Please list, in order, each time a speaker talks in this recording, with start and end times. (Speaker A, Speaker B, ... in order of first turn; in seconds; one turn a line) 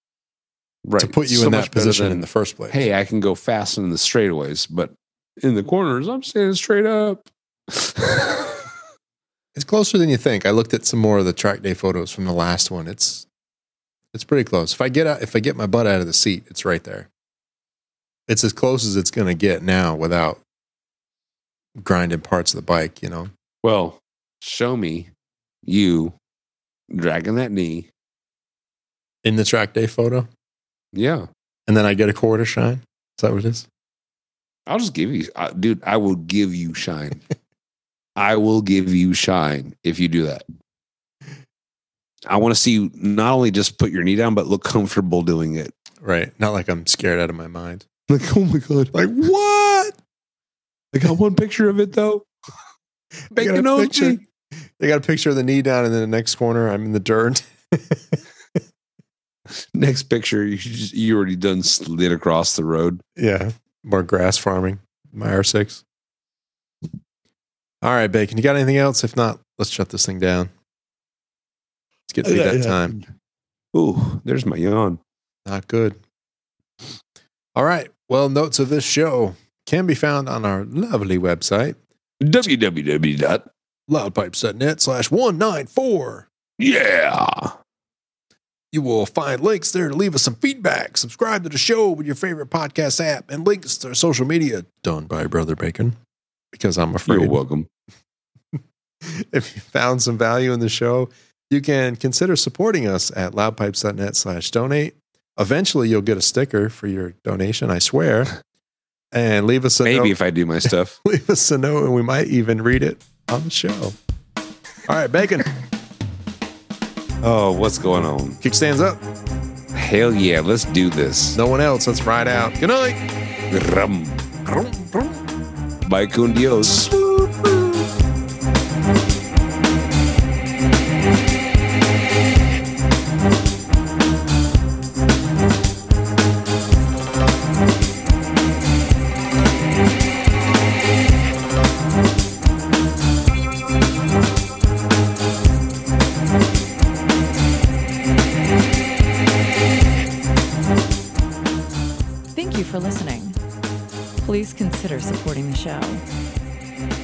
Speaker A: 0.8-8.7
Speaker B: 1.0-2.8
Speaker B: 9.5-13.3
Speaker B: 14.1-17.1
Speaker B: 18.3-20.4
Speaker B: 21.8-23.3
Speaker A: 23.6-25.1
Speaker A: 25.6-26.1
Speaker A: 26.9-27.9
Speaker B: 29.2-30.3
Speaker A: 30.9-31.3
Speaker B: 31.7-33.7
Speaker A: 34.7-37.2
Speaker A: 38.2-40.4
Speaker A: 42.3-45.7
Speaker B: 46.0-47.8
Speaker A: 48.1-49.0
Speaker B: 48.9-50.0
Speaker A: 50.9-52.3
Speaker A: 53.3-54.2
Speaker B: 53.3-54.2
Speaker B: 54.8-58.2
Speaker A: 59.7-63.0
Speaker B: 63.1-65.8
Speaker B: 67.8-70.5
Speaker B: 72.1-72.9
Speaker A: 72.2-73.0
Speaker A: 73.7-75.0
Speaker B: 75.5-76.0
Speaker B: 77.5-81.8
Speaker A: 82.2-83.5
Speaker B: 83.9-86.2
Speaker A: 86.6-87.5
Speaker B: 88.7-95.9
Speaker B: 96.5-97.4
Speaker A: 97.0-97.7
Speaker B: 99.0-108.3
Speaker B: 109.1-114.0
Speaker A: 109.8-111.0
Speaker B: 114.9-115.5
Speaker A: 117.2-118.4
Speaker B: 118.4-119.0
Speaker A: 119.7-121.4
Speaker B: 121.3-123.0
Speaker A: 123.5-124.4
Speaker B: 124.6-125.0
Speaker A: 125.8-127.0
Speaker B: 127.0-127.6
Speaker C: 152.3-153.3
Speaker C: 154.2-156.0